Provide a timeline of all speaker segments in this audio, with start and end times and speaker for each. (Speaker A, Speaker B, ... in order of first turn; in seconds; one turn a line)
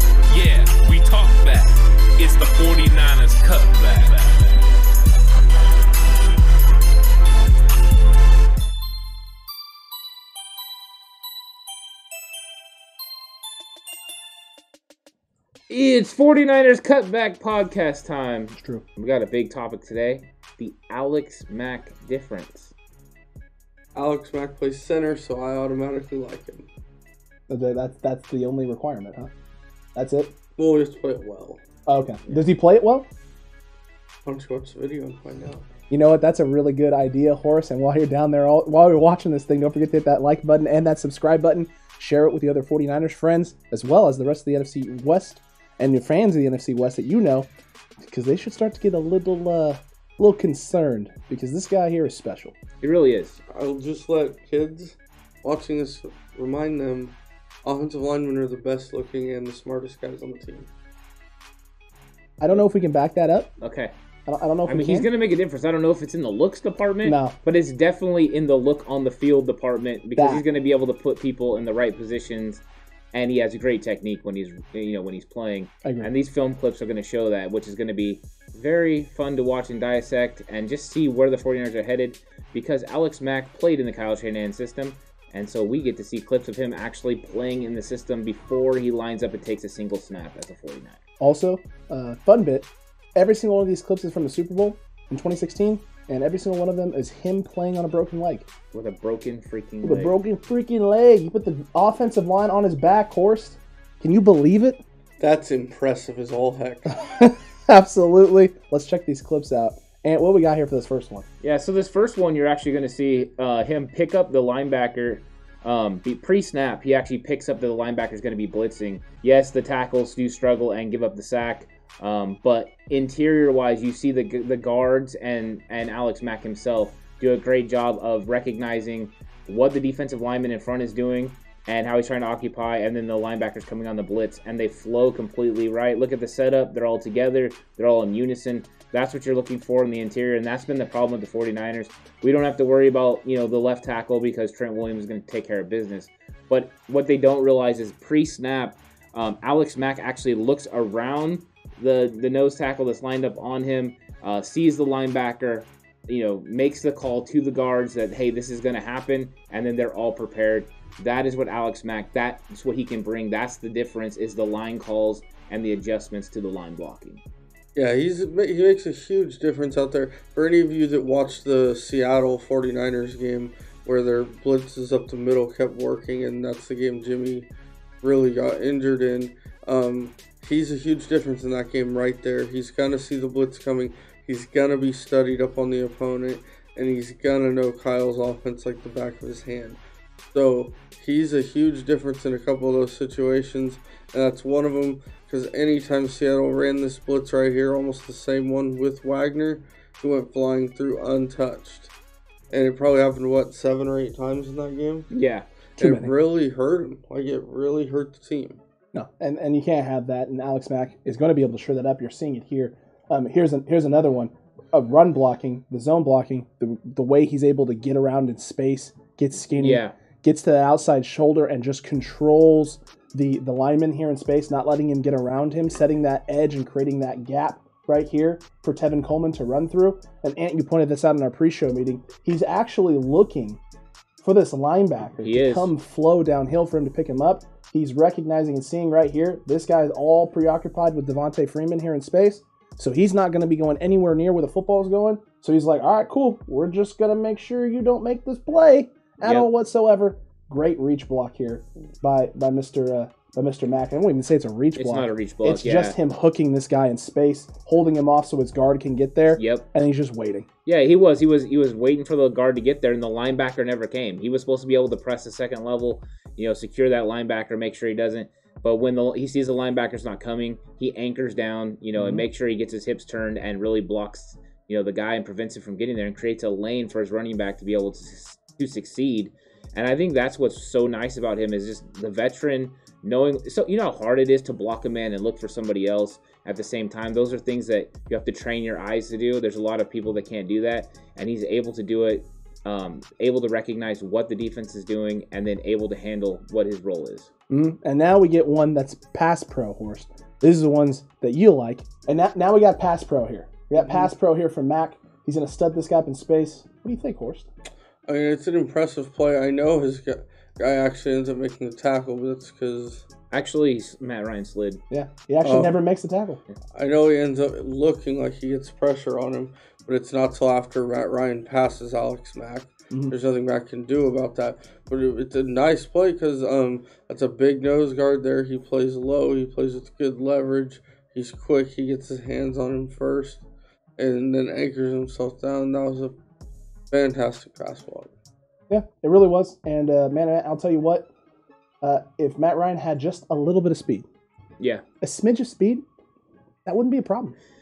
Speaker A: 0.3-4.5
Speaker A: 15.7-22.7
Speaker B: 18.6-18.8
Speaker C: 23.9-26.7
Speaker B: 27.5-29.3
Speaker B: 29.9-30.3
Speaker C: 30.6-31.6
Speaker B: 31.9-33.1
Speaker C: 34.2-35.7
Speaker B: 35.9-47.5
Speaker B: 48.0-52.5
Speaker A: 52.8-53.4
Speaker C: 53.5-60.7
Speaker B: 62.4-63.5
Speaker A: 63.6-63.9
Speaker B: 64.3-65.1
Speaker A: 64.7-91.0
Speaker B: 67.0-67.4
Speaker B: 70.2-70.4
Speaker B: 75.8-76.1
Speaker B: 91.2-98.5
Speaker A: 98.7-100.1
Speaker B: 99.8-104.8
Speaker C: 105.2-107.0
Speaker B: 106.9-111.2
Speaker A: 111.4-167.2
Speaker C: 167.7-177.5
Speaker C: 178.0-189.8
Speaker C: 190.3-201.9
Speaker C: 202.5-205.1
Speaker A: 205.1-205.5
Speaker B: 205.8-206.1
Speaker C: 205.8-208.6
Speaker B: 208.9-233.6
Speaker A: 219.6-219.9
Speaker B: 234.2-260.4
Speaker A: 235.2-235.7
Speaker A: 254.8-256.0
Speaker A: 259.3-259.6
Speaker A: 260.6-297.3
Speaker B: 272.0-272.2
Speaker B: 297.5-307.5
Speaker C: 303.8-304.1
Speaker C: 308.1-313.0
Speaker A: 313.3-314.8
Speaker B: 314.9-316.4
Speaker C: 315.4-315.8
Speaker C: 316.7-333.4
Speaker C: 334.0-336.1
Speaker C: 336.9-338.1
Speaker B: 338.7-341.1
Speaker B: 341.8-344.1
Speaker B: 345.0-345.8
Speaker B: 346.6-347.4